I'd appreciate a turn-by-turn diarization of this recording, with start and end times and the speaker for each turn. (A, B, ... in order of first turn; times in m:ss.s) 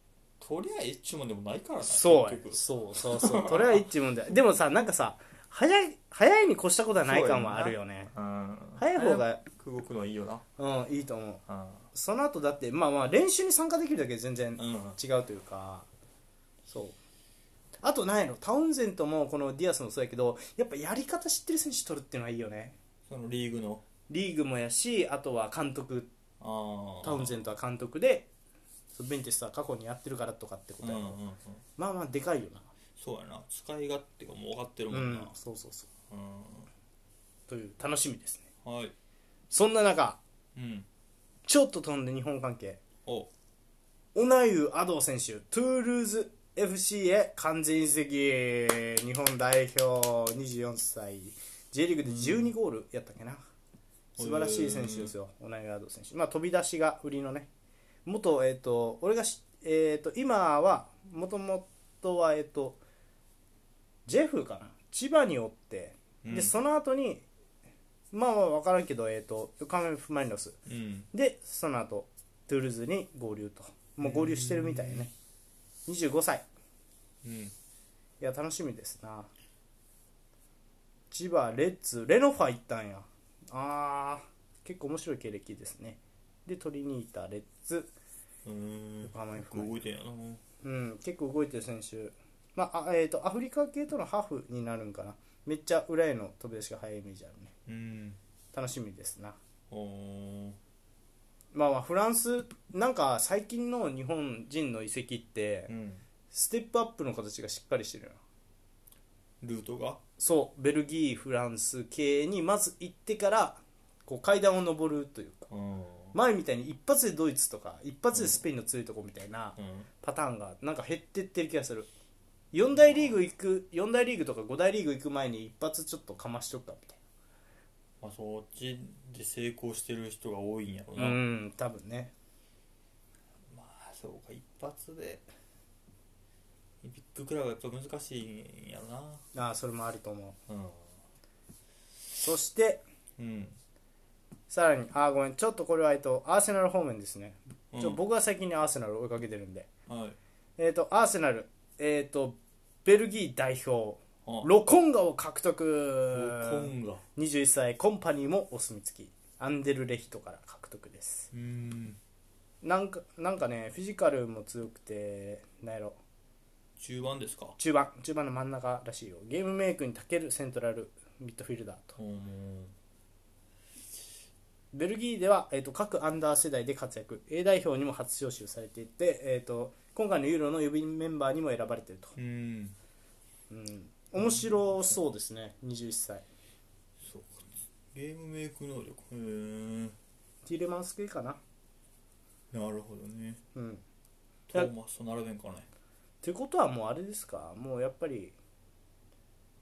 0:00.4-0:03.8 A
0:01.8-0:08.1 B
0:07.0-0:10.4 A
0:08.8-0:09.4 B
0:10.6-0:15.9 B
0:11.5-0:11.8 A
0:14.6-0:15.0 A
0:16.7-0:17.0 B
0:17.8-0:22.8 B
0:23.1-0:23.8 A
0:24.1-0:26.1 B
0:26.4-0:27.3 A
0:27.0-0:28.3 B
0:28.9-0:31.2 B
0:30.8-0:31.6 A
0:31.8-0:32.7 B
0:33.0-0:35.3 A
0:34.9-0:35.9 B
0:36.1-0:36.7 A
0:37.5-0:38.5 B
0:38.6-0:38.9 A
0:39.5-0:40.2 B
0:40.5-0:40.9 A
0:41.5-0:42.8 B
0:44.1-0:53.4 B
0:52.0-0:52.5 A
0:54.2-0:55.1 A
0:54.2-0:57.5 B
0:58.0-1:02.8 B
1:04.0-1:07.2 B
1:06.2-1:06.5 A
1:08.1-1:10.6 B
1:10.6-1:11.1 A
1:11.1-1:15.1 B
1:14.0-1:15.1 A
1:15.9-1:16.4 B
1:17.2-1:17.5 A
1:18.2-1:19.3 B
1:21.1-1:27.9 B
1:28.4-1:30.4 A
1:29.0-1:29.8 B
1:30.6-1:37.5 B
1:37.7-1:38.2 A
1:38.5-1:39.4 B
1:39.7-1:40.6 A
1:41.5-1:45.7 B
1:45.7-1:46.0 A
1:46.3-1:48.2 B
1:49.4-1:50.0 A
1:50.2-1:55.5 B
1:55.5-1:56.1 A
1:56.1-2:01.9 B
1:58.1-1:58.4 A
1:59.6-1:59.9 A
2:02.5-2:07.0 B
2:02.7-2:03.2 A
2:08.0-2:11.2 A
2:11.0-2:12.1 B
2:13.5-2:15.2 A
2:16.8-2:19.2 A
2:19.3-2:20.4 B
2:20.5-2:20.9 A
2:22.2-2:22.8 B
2:23.2-2:23.6 A
2:24.5-2:29.7 B
2:27.7-2:28.0 A
2:29.9-2:30.2 A
2:30.6-2:41.3 B
2:36.1-2:37.0 A
2:41.3-2:42.0 A
2:42.6-2:46.0 B
2:46.8-2:47.6 A
2:47.6-2:52.0 B
2:52.0-2:52.7 A
2:54.7-3:02.1 B
3:02.2-3:02.7 A
3:03.5-3:06.2 B
3:04.2-3:04.5 A
3:07.0-3:10.0 A
3:10.4-3:11.4 B
3:12.5-3:13.4 A
3:13.5-3:13.8 B
3:14.5-3:15.7 A
3:16.2-3:18.3 B